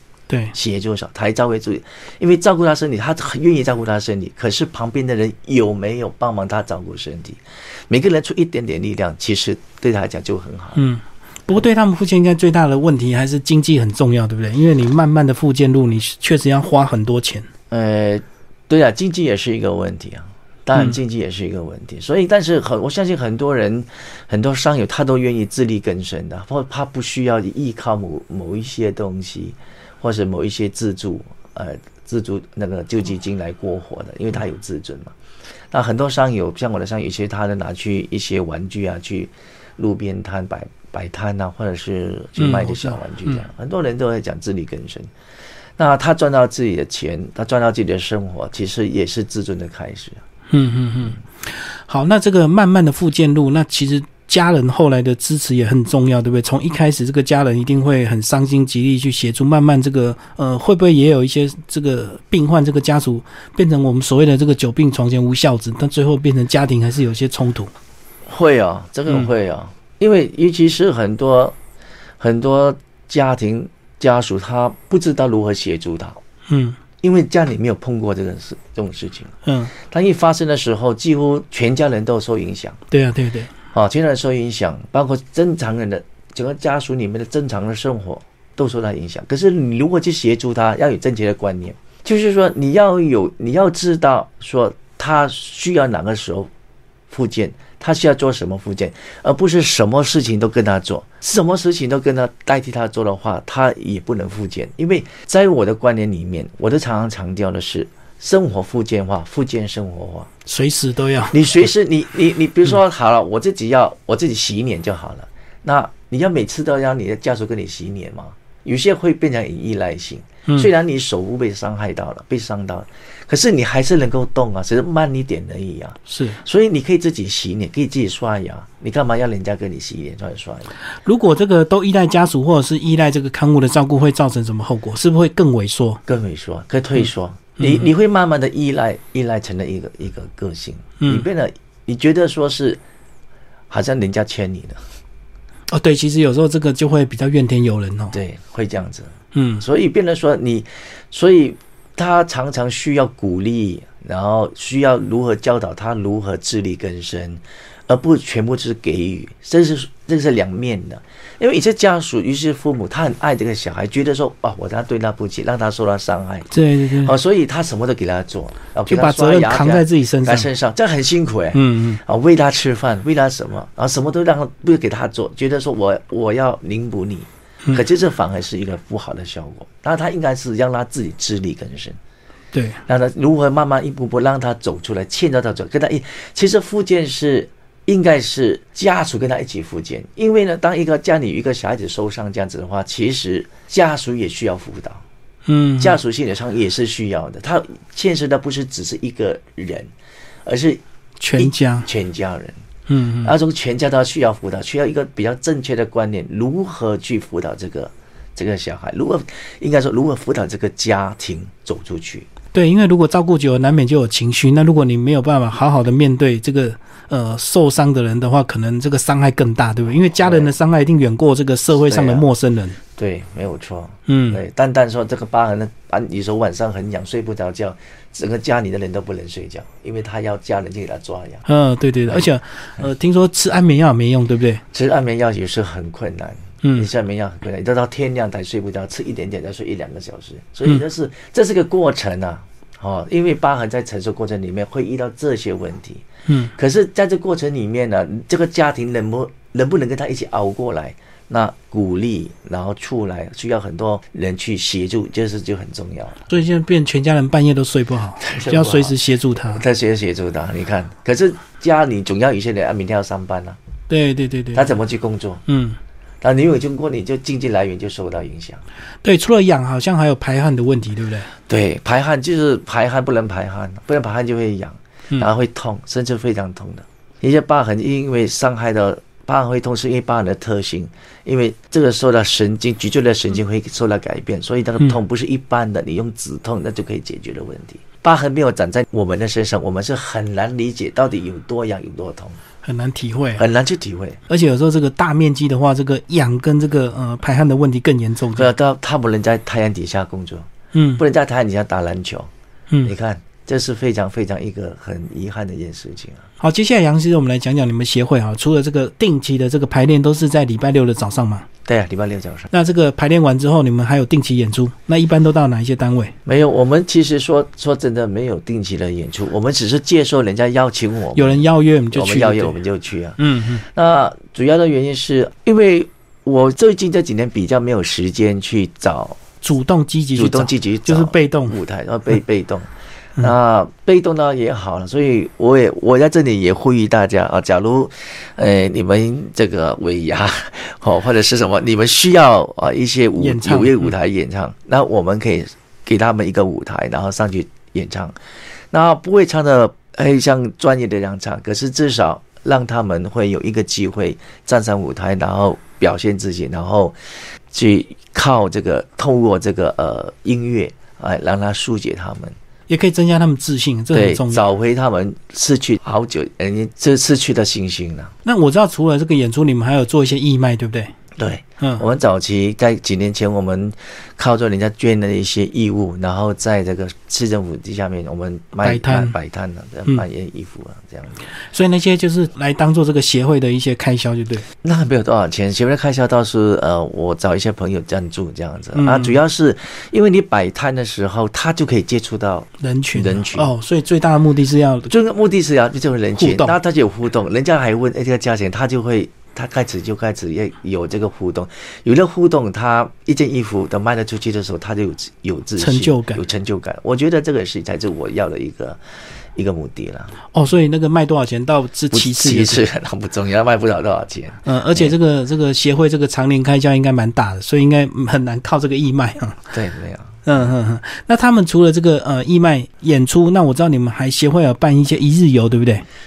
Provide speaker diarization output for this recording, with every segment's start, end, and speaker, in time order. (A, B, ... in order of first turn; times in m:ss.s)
0:00.3-0:00.5 A
0:00.5-0:10.8 B
0:10.8-0:17.5 A
0:17.7-0:35.1 B
0:35.7-0:45.1 B
0:42.4-0:43.4 A
0:45.8-0:50.2 B
0:50.5-1:07.7 A
1:08.3-1:11.6 B
1:12.2-1:16.2 B
1:16.5-1:16.8 A
1:17.0-1:22.8 B
1:19.4-1:19.7 A
1:22.9-1:23.5 A
1:23.7-1:36.5 B
1:37.1-1:50.3 B
1:50.4-1:51.4 A
1:51.3-2:10.7 B
2:06.1-2:06.4 A
2:11.0-2:16.0 A
2:16.0-2:22.8 B
2:17.6-2:17.9 A
2:21.0-2:21.2 A
2:23.7-2:24.8 B
2:25.7-2:28.2 A
2:28.1-3:02.0 B
2:29.3-2:29.6 A
2:46.5-2:47.2 A
2:48.9-2:50.5 A
2:51.5-2:52.0 A
3:02.5-3:02.8 A
3:02.9-3:15.0 B
3:15.5-3:16.0 A
3:15.8-3:19.9 B
3:20.4-3:20.8 B
3:21.2-3:21.9 A
3:21.4-3:22.6 B
3:22.9-3:23.3 A
3:23.2-3:32.3 B
3:32.5-3:42.8 A
3:40.2-3:40.5 B
3:41.8-3:42.2 B
3:43.0-3:51.4 B
3:44.1-3:44.4 A
3:51.4-3:54.6 A
3:54.7-4:16.2 B
3:56.6-3:56.9 A
4:06.3-4:06.5 A
4:16.3-4:19.6 A
4:18.2-4:19.0 B
4:19.5-4:23.6 B
4:23.9-4:24.7 A
4:24.5-4:25.4 B
4:25.5-4:25.8 A
4:26.2-4:28.6 B
4:29.0-4:31.3 A
4:31.5-4:52.4 B
4:52.6-4:53.4 A
4:53.4-4:54.2 B
4:54.3-4:58.5 A
4:58.3-5:02.3 B
5:00.7-5:01.0 A
5:02.8-5:06.3 B
5:06.4-5:11.4 A
5:11.6-5:12.5 B
5:12.5-5:16.1 A
5:16.2-5:29.2 B
5:21.1-5:22.6 A
5:23.2-5:23.6 A
5:29.4-5:31.6 A
5:30.2-5:48.2 B
5:43.2-5:43.9 A
5:48.7-5:57.0 B
5:57.5-6:02.4 B
6:02.7-6:04.4 A
6:03.9-6:08.1 B
6:08.2-6:10.9 A
6:11.2-6:21.2 B
6:18.6-6:19.1 A
6:21.5-6:24.4 A
6:24.6-6:33.5 B
6:28.7-6:29.2 A
6:32.6-6:34.9 A
6:34.9-6:48.8 B
6:36.2-6:36.6 A
6:45.6-6:46.2 A
6:49.3-6:50.1 B
6:50.3-6:52.6 A
6:51.9-6:54.9 B
6:54.4-6:59.5 A
6:59.5-7:00.4 B
7:00.2-7:05.8 A